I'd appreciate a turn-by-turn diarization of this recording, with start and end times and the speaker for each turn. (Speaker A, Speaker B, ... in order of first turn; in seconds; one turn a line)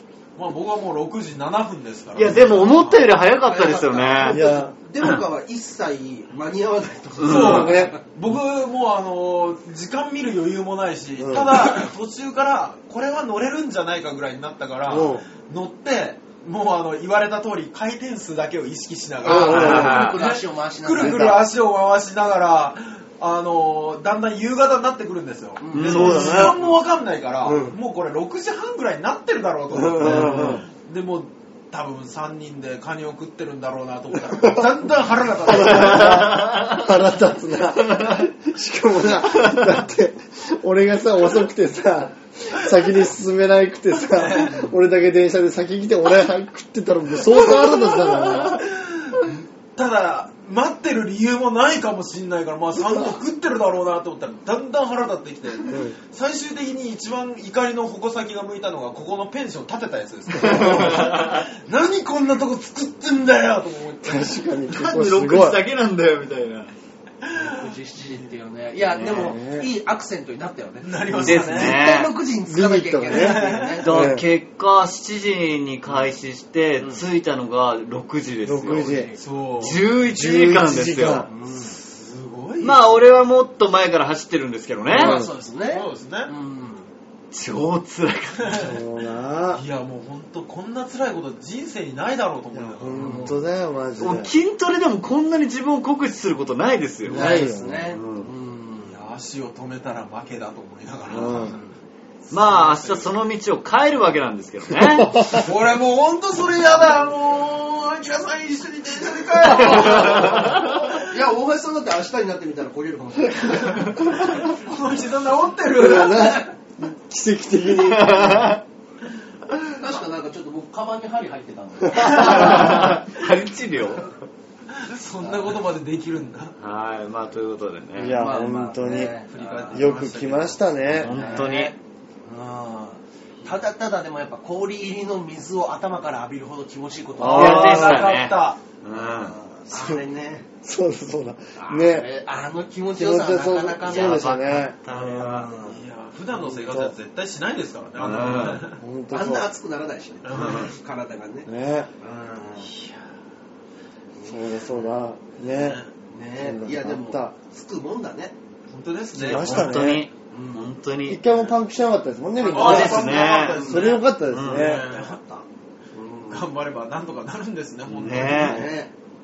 Speaker A: 0.3-3.1
Speaker B: 2.1-4.4
Speaker C: 3.4-8.0
Speaker D: 4.2-4.7
Speaker B: 7.2-7.7
Speaker A: 7.2-36.4
Speaker D: 7.4-7.9
Speaker D: 11.2-11.6
Speaker D: 14.9-15.2
Speaker D: 19.2-20.0
Speaker C: 19.2-21.4
Speaker B: 19.3-20.2
Speaker D: 20.9-21.4
Speaker C: 25.6-26.4
Speaker B: 25.7-26.5
Speaker D: 25.8-26.6
Speaker D: 27.4-27.8
Speaker D: 29.7-30.6
Speaker B: 30.1-30.5
Speaker D: 34.3-34.7
Speaker D: 35.4-48.6
Speaker B: 35.5-36.9
Speaker B: 37.9-38.3
Speaker B: 39.3-39.8
Speaker A: 44.0-44.7
Speaker A: 47.9-64.5
Speaker D: 55.6-55.9
Speaker B: 60.4-61.5
Speaker D: 60.4-60.9
Speaker D: 64.0-65.6
Speaker B: 64.7-66.7
Speaker A: 67.2-67.7
Speaker C: 67.4-74.0
Speaker B: 69.0-69.3
Speaker D: 69.0-69.7
Speaker A: 70.8-71.8
Speaker B: 71.2-72.1
Speaker D: 72.5-74.2
Speaker A: 73.1-73.8
Speaker B: 73.8-79.0
Speaker D: 78.4-79.1
Speaker C: 78.7-79.2
Speaker A: 79.2-79.8
Speaker B: 79.6-81.3
Speaker D: 80.0-81.3
Speaker C: 81.3-81.8
Speaker A: 81.6-83.0
Speaker B: 82.6-85.2
Speaker C: 84.9-86.9
Speaker D: 84.9-85.3
Speaker A: 85.7-86.3
Speaker B: 87.3-88.7
Speaker A: 88.4-88.7
Speaker D: 88.5-89.6
Speaker A: 89.5-93.3
Speaker D: 92.5-94.3
Speaker C: 92.9-93.4
Speaker B: 94.0-98.3
Speaker D: 97.1-97.9
Speaker C: 97.1-99.0
Speaker A: 98.9-101.6
Speaker D: 101.1-101.5
Speaker C: 101.4-101.7
Speaker A: 102.3-103.1
Speaker B: 102.3-105.4
Speaker D: 104.8-105.4
Speaker A: 105.3-111.0
Speaker B: 109.5-110.8
Speaker C: 109.6-114.3
Speaker A: 113.6-116.4
Speaker D: 115.7-118.6
Speaker C: 116.2-116.5
Speaker B: 117.7-118.6
Speaker C: 119.8-122.9
Speaker B: 122.0-124.2
Speaker A: 124.7-126.5
Speaker C: 125.2-125.6
Speaker B: 126.6-128.3
Speaker D: 128.0-129.1
Speaker C: 128.1-129.9
Speaker A: 129.3-131.7
Speaker D: 129.7-131.1
Speaker B: 130.9-131.7
Speaker C: 131.1-131.7
Speaker C: 132.2-138.1
Speaker D: 137.2-138.0
Speaker A: 137.2-138.6
Speaker B: 137.2-139.3
Speaker C: 138.9-140.5
Speaker D: 139.7-140.0
Speaker D: 140.6-142.1
Speaker C: 141.6-144.3
Speaker D: 142.9-145.5
Speaker B: 143.8-145.5
Speaker C: 145.2-145.8
Speaker A: 145.5-148.8
Speaker D: 146.4-146.9
Speaker B: 148.0-148.7
Speaker D: 148.7-149.5
Speaker C: 149.1-151.5
Speaker A: 150.2-150.7
Speaker B: 150.3-150.7
Speaker D: 151.4-151.9
Speaker C: 152.0-152.7
Speaker A: 152.6-153.1
Speaker C: 154.2-154.9
Speaker D: 154.3-155.8
Speaker A: 155.5-155.9
Speaker C: 156.1-158.3
Speaker D: 156.4-157.3
Speaker A: 158.7-159.8
Speaker D: 159.2-160.1
Speaker B: 159.2-161.2
Speaker C: 160.3-160.7
Speaker D: 161.1-164.9
Speaker A: 162.4-165.4
Speaker B: 162.5-163.8
Speaker C: 163.4-164.0
Speaker B: 164.3-164.8
Speaker C: 164.8-165.4
Speaker C: 165.9-166.5
Speaker A: 166.3-168.6
Speaker B: 167.9-168.7
Speaker C: 168.1-168.9